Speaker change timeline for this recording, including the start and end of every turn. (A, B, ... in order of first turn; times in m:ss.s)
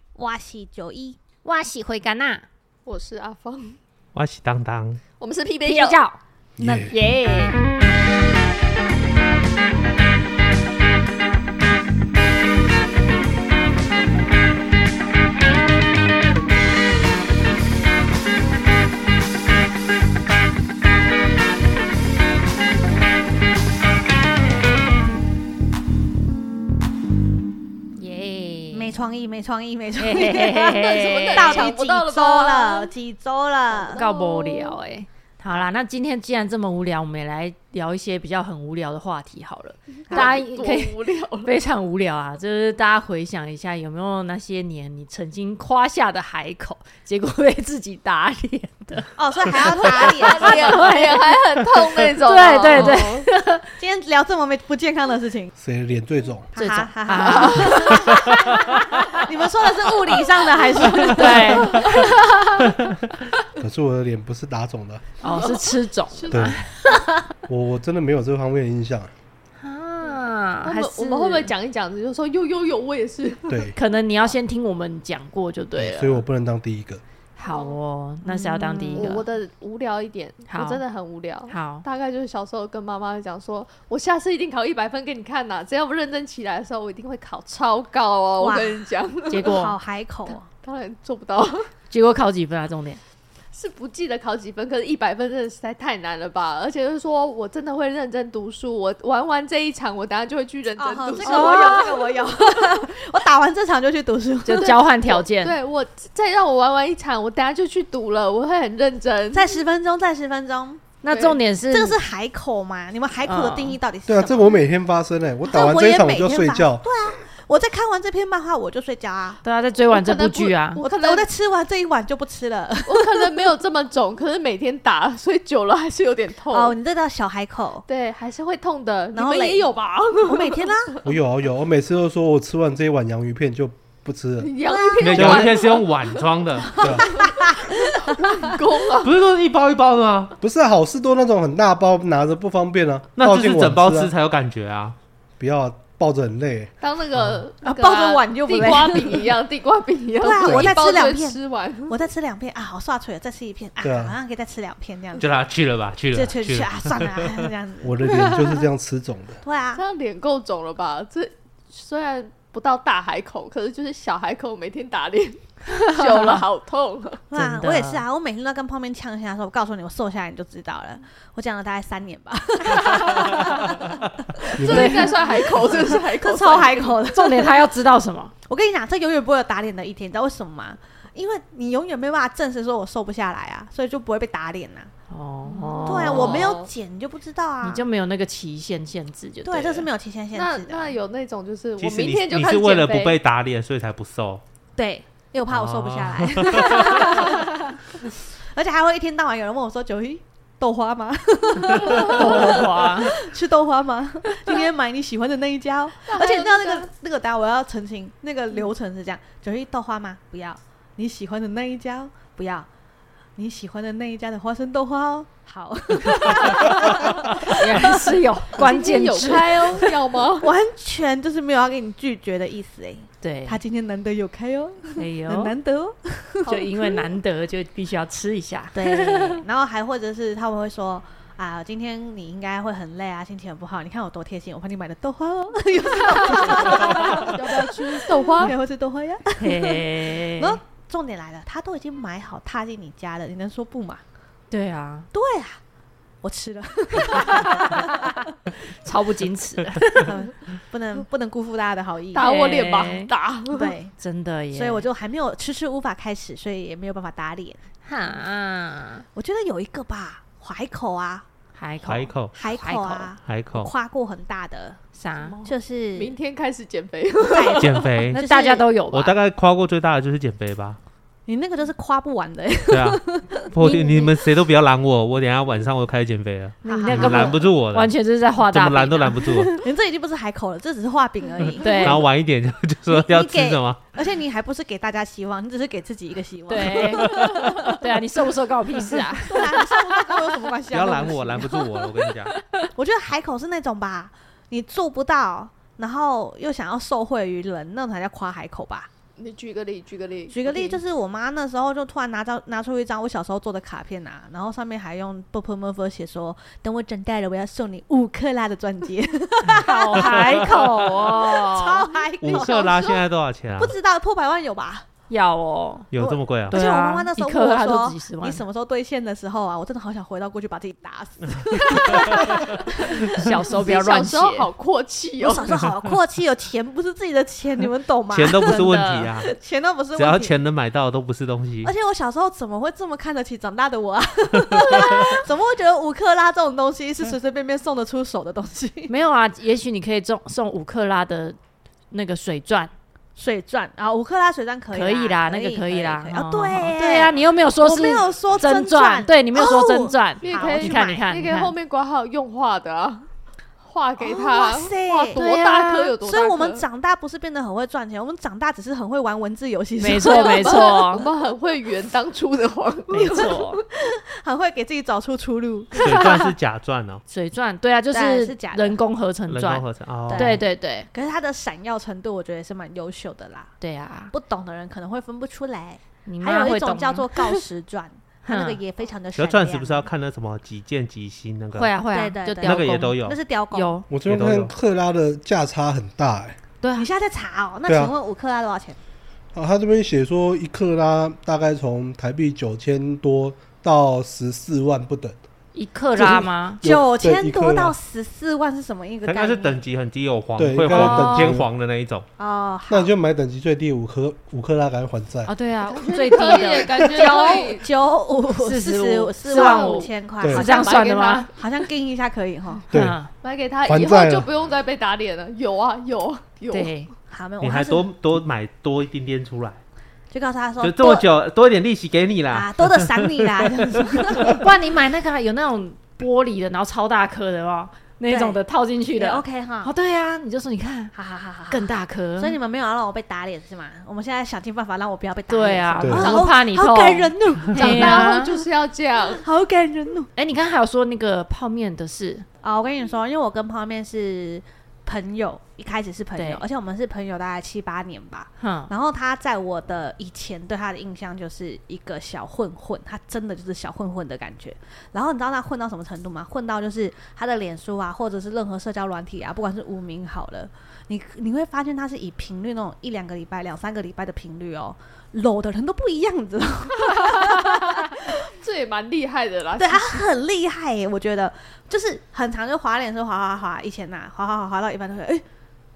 0:00.2-0:01.2 A
0:01.4-0:02.4 B
0:02.8-0:03.8 C
0:04.1-0:05.0 D
0:05.2-0:06.0 C
0:05.6-0:07.6 B
0:06.6-0:06.9 E
0:27.9-0:28.9 B
0:28.7-0:34.0 A
0:30.0-0:31.7 B
0:30.5-0:32.9 C
0:33.7-0:34.8 C
0:33.9-0:51.4 B
0:40.1-0:40.4 A
0:40.1-0:41.5 C
0:49.2-0:50.9 A
0:49.8-0:53.2 C
0:52.2-0:53.7 B
0:52.7-0:53.0 A
0:53.8-0:55.5 A
0:55.6-0:56.5 E
0:56.5-1:02.1 A
0:56.6-0:58.8 B
0:57.2-0:58.1 C
1:00.6-1:02.1 C
1:00.9-1:02.7 B
1:03.6-1:05.1 E
1:05.2-1:06.5 C
1:05.2-1:07.3 B
1:06.3-1:06.6 E
1:07.4-1:09.1 E
1:09.6-1:11.5 B
1:10.0-1:13.8 C
1:13.5-1:13.7 E
1:13.7-1:16.2 B
1:15.8-1:17.0 E
1:17.4-1:19.2 B
1:17.4-1:17.8 C
1:18.2-1:19.2 A
1:19.0-1:29.6 C
1:20.5-1:20.8 B
1:21.5-1:21.8 B
1:28.4-1:28.9 A
1:29.3-1:29.8 B
1:29.4-1:30.5 A
1:30.5-1:31.7 C
1:31.9-1:33.0 B
1:33.5-1:42.4 C
1:40.8-1:44.8 A
1:41.2-1:41.9 B
1:44.4-1:45.6 B
1:45.1-1:49.5 C
1:49.3-1:50.9 A
1:51.0-1:52.0 B
1:51.1-1:51.4 C
1:51.7-1:54.6 A
1:53.2-1:53.8 B
1:54.1-1:56.9 E
1:55.4-1:59.4 A
1:59.4-2:00.8 B
1:59.9-2:01.2 C
2:00.8-2:03.5 A
2:02.9-2:06.7 C
2:06.5-2:07.8 A
2:07.9-2:11.0 C
2:09.1-2:09.7 A
2:10.2-2:11.0 A
2:11.0-2:14.5 E
2:14.4-2:16.2 C
2:14.7-2:15.0 A
2:15.0-2:16.9 D
2:15.1-2:15.5 E
2:16.7-2:17.1 E
2:16.8-2:18.4 A
2:16.8-2:19.1 C
2:19.0-2:20.4 D
2:20.4-2:24.1 E
2:23.2-2:25.0 D
2:25.4-2:26.7 E
2:26.8-2:32.0 C
2:27.6-2:29.3 A
2:30.2-2:35.3 A
2:30.4-2:30.8 E
2:33.8-2:34.1 E
2:35.2-2:37.5 D
2:36.1-2:38.2 A
2:37.8-2:39.4 E
2:39.4-2:39.8 A
2:39.7-2:47.2 C
2:45.7-2:46.4 B
2:47.3-2:57.6 A
2:47.3-2:48.0 B
2:54.4-2:56.9 C
2:54.6-2:55.0 E
2:54.7-2:55.2 B
2:57.1-2:58.3 B
2:58.5-3:04.9 A
3:05.1-3:06.6 B
3:05.4-3:06.7 C
3:05.8-3:07.8 A
3:07.6-3:09.9 B
3:09.4-3:11.0 A
3:10.3-3:13.2 C
3:11.8-3:14.4 D
3:14.8-3:32.7 A
3:15.5-3:17.3 D
3:21.9-3:23.1 B
3:26.1-3:26.9 C
3:33.4-3:38.0 A
3:37.4-3:39.9 B
3:37.4-3:40.5 C
3:40.4-3:46.6 A
3:43.2-3:43.6 B
3:45.0-3:45.5 B
3:46.5-3:49.4 B
3:48.7-4:04.0 A
3:56.5-3:58.5 C
3:59.4-4:00.6 B
4:04.5-4:05.1 B
4:05.1-4:05.6 A
4:06.2-4:08.3 A
4:07.1-4:07.9 B
4:08.8-4:10.1 B
4:09.9-4:12.3 A
4:12.1-4:13.7 C
4:12.2-4:13.1 B
4:13.5-4:13.9 A
4:14.0-4:14.8 B
4:14.5-4:17.6 A
4:17.9-4:19.0 B
4:19.1-4:21.2 A
4:21.6-4:23.1 B
4:21.8-4:22.3 D
4:22.3-4:24.8 A
4:23.2-4:23.7 D
4:25.0-4:25.3 B
4:25.2-4:27.9 C
4:25.4-4:26.1 A
4:27.2-4:28.6 A
4:27.5-4:28.2 D
4:28.1-4:29.1 B
4:28.9-4:30.8 D
4:31.3-4:33.5 A
4:32.7-4:39.5 D
4:33.6-4:34.1 B
4:36.6-4:37.4 A
4:36.6-4:39.5 B
4:39.5-4:42.1 A
4:41.6-4:42.0 B
4:41.8-4:43.8 D
4:42.9-4:47.8 A
4:46.5-4:49.8 B
4:48.9-4:51.7 A
4:50.7-4:52.3 D
4:52.3-4:52.7 B
4:52.7-4:58.9 A
4:59.2-5:00.8 C
5:00.3-5:14.9 A
5:09.4-5:11.9 B
5:12.2-5:13.7 D
5:15.1-5:15.9 B
5:15.9-5:16.6 D
5:15.9-5:23.3 A
5:16.5-5:18.4 B
5:21.6-5:22.4 D
5:23.0-5:24.5 B
5:23.5-5:25.5 C
5:25.2-5:30.4 A
5:28.1-5:29.3 D
5:28.7-5:29.1 B
5:30.0-5:31.7 D
5:31.6-5:38.9 A
5:38.9-5:41.4 B
5:41.9-5:42.7 B
5:43.2-5:51.0 A
5:44.7-5:51.5 B
5:50.2-5:53.1 C
5:53.6-5:56.6 C
5:54.0-5:55.2 A
5:55.1-5:56.0 B
5:56.0-6:00.6 A
5:59.8-6:01.0 B
6:00.0-6:03.2 C
6:02.9-6:03.6 B
6:03.0-6:06.1 A
6:05.8-6:06.3 B
6:05.8-6:07.0 D
6:07.1-6:10.9 B
6:07.9-6:08.8 A
6:09.3-6:10.4 D
6:10.1-6:13.5 A
6:13.6-6:14.1 B
6:14.1-6:19.8 A
6:16.0-6:17.4 B
6:18.2-6:18.6 B
6:19.1-6:21.7 D
6:21.6-6:23.0 B
6:21.9-6:23.7 A
6:22.4-6:23.2 D
6:23.5-6:23.9 B
6:23.9-6:26.4 E
6:24.0-6:24.5 D
6:26.6-6:26.9 B
6:26.8-6:28.8 A
6:27.7-6:27.9 E
6:29.3-6:35.2 E
6:35.5-6:36.6 B
6:36.0-6:37.8 E
6:36.6-6:39.6 A
6:39.0-6:42.0 D
6:40.4-6:41.5 E
6:40.7-6:41.4 B
6:42.2-6:42.9 A
6:42.7-6:45.3 E
6:45.3-6:47.6 B
6:45.7-6:47.7 C
6:46.1-6:50.8 A
6:48.4-6:51.3 B
6:49.3-6:51.3 C
6:50.2-6:50.5 E
6:51.4-6:52.6 A
6:52.7-6:53.0 E
6:52.7-6:53.1 B
6:53.1-6:56.8 C
6:53.6-6:54.3 E
6:56.5-6:56.9 B
6:57.1-6:57.9 A
6:57.4-6:59.6 D
7:00.1-7:01.0 A
7:00.6-7:04.3 D
7:02.3-7:04.5 A
7:04.2-7:10.9 B
7:08.1-7:08.4 A
7:08.9-7:09.7 A
7:10.9-7:18.4 A
7:11.5-7:12.4 B
7:15.3-7:18.3 B
7:15.8-7:16.2 E
7:16.0-7:16.3 C
7:17.5-7:19.2 C
7:19.0-7:20.1 A
7:20.2-7:22.2 B
7:22.4-7:48.2 A
7:26.2-7:26.4 B
7:28.4-7:28.7 B
7:48.0-7:50.0 C
7:49.6-7:55.2 A